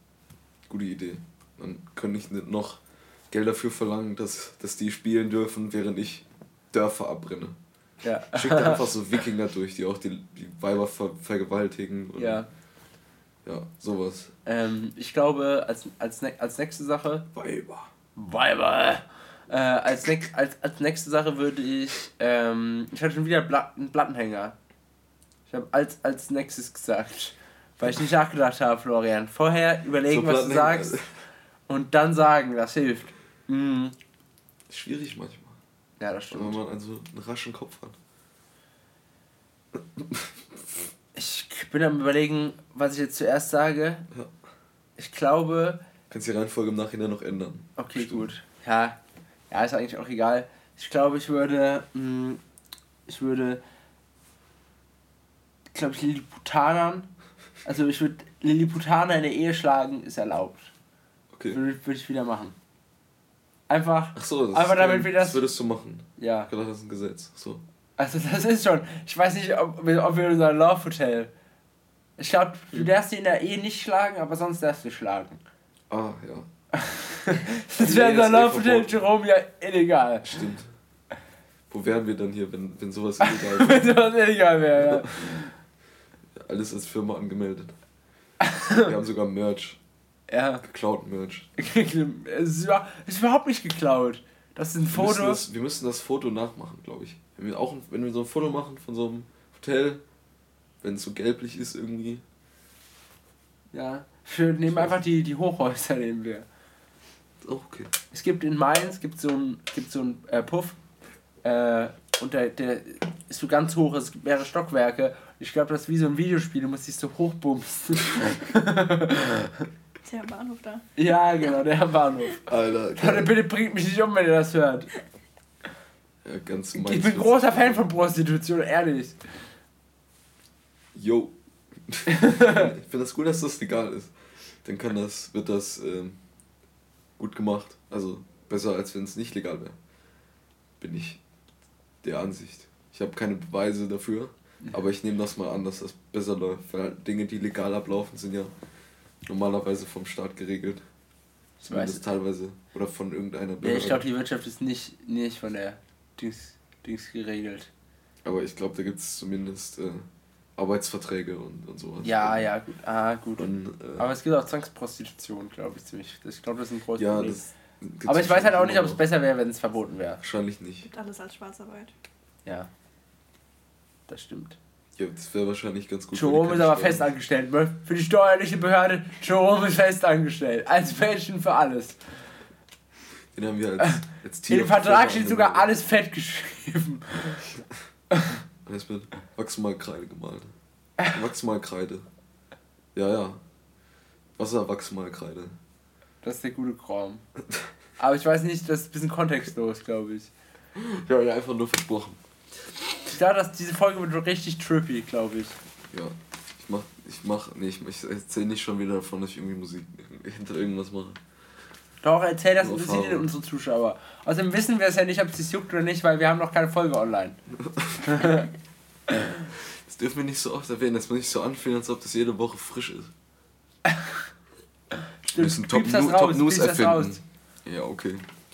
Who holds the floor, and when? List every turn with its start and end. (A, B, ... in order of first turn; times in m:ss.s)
0:00.7-0:07.6 A
0:08.0-0:08.8 B
0:08.3-0:12.4 A
0:12.2-0:12.5 B
0:13.4-0:14.3 A
0:14.4-0:17.2 B
0:17.3-0:17.9 A
0:18.2-0:24.6 B
0:25.5-0:31.0 B
0:30.1-0:31.1 A
0:31.7-0:34.0 B
0:34.7-0:35.6 A
0:36.0-0:36.6 B
0:36.3-0:38.0 A
0:39.7-0:40.8 A
0:41.1-0:44.0 B
0:45.0-0:45.8 B
0:46.1-0:48.3 A
0:47.8-0:49.0 B
0:49.5-0:52.4 B
0:53.1-0:53.6 B
0:55.7-0:57.1 B
0:57.6-1:00.7 B
1:01.3-1:01.6 A
1:01.5-1:02.5 B
1:03.7-1:05.4 B
1:04.1-1:07.6 A
1:06.2-1:06.5 B
1:08.0-1:11.3 B
1:12.2-1:15.4 B
1:15.9-1:16.5 A
1:16.8-1:20.4 B
1:17.8-1:19.0 A
1:20.2-1:20.7 A
1:21.7-1:23.9 A
1:23.2-1:25.5 B
1:26.4-1:27.8 A
1:28.4-1:28.9 B
1:28.8-1:29.8 A
1:30.3-1:30.6 B
1:30.6-1:31.5 A
1:31.6-1:35.4 B
1:34.9-1:40.0 A
1:40.8-1:42.2 A
1:43.7-1:46.4 B
1:44.7-1:45.0 A
1:47.4-1:47.9 A
1:48.1-1:50.8 B
1:51.4-1:59.6 B
2:00.0-2:00.8 C
2:01.0-2:04.9 B
2:02.4-2:03.3 A
2:06.2-2:07.9 A
2:06.7-2:09.2 B
2:10.9-2:11.3 A
2:11.8-2:14.1 A
2:12.1-2:12.7 B
2:14.6-2:16.2 A
2:17.2-2:19.7 A
2:20.8-2:21.2 A
2:22.0-2:28.5 A
2:29.2-2:30.8 A
2:31.6-2:32.0 B
2:31.6-2:34.0 A
2:33.6-2:37.7 B
2:38.2-2:40.0 A
2:40.6-2:42.5 A
2:42.0-2:47.4 B
2:43.4-2:44.1 A
2:47.0-2:49.0 A
2:48.0-2:50.2 B
2:50.2-2:50.9 A
2:50.8-2:51.9 C
2:54.1-2:54.6 B
2:55.0-2:57.0 A
2:56.1-3:02.0 B
3:03.3-3:05.7 A
3:04.5-3:07.4 B
3:08.6-3:10.5 A
3:11.1-3:12.0 A
3:12.9-3:13.4 A
3:14.4-3:15.6 A
3:16.2-3:17.2 B
3:18.0-3:20.3 B
3:20.8-3:22.2 A
3:23.1-3:25.6 B
3:25.9-3:31.2 A
3:32.0-3:37.4 B
3:32.6-3:33.3 A
3:37.6-3:38.0 A
3:38.0-3:38.5 B
3:39.8-3:43.1 A
3:45.2-3:47.2 B
3:45.3-3:48.3 A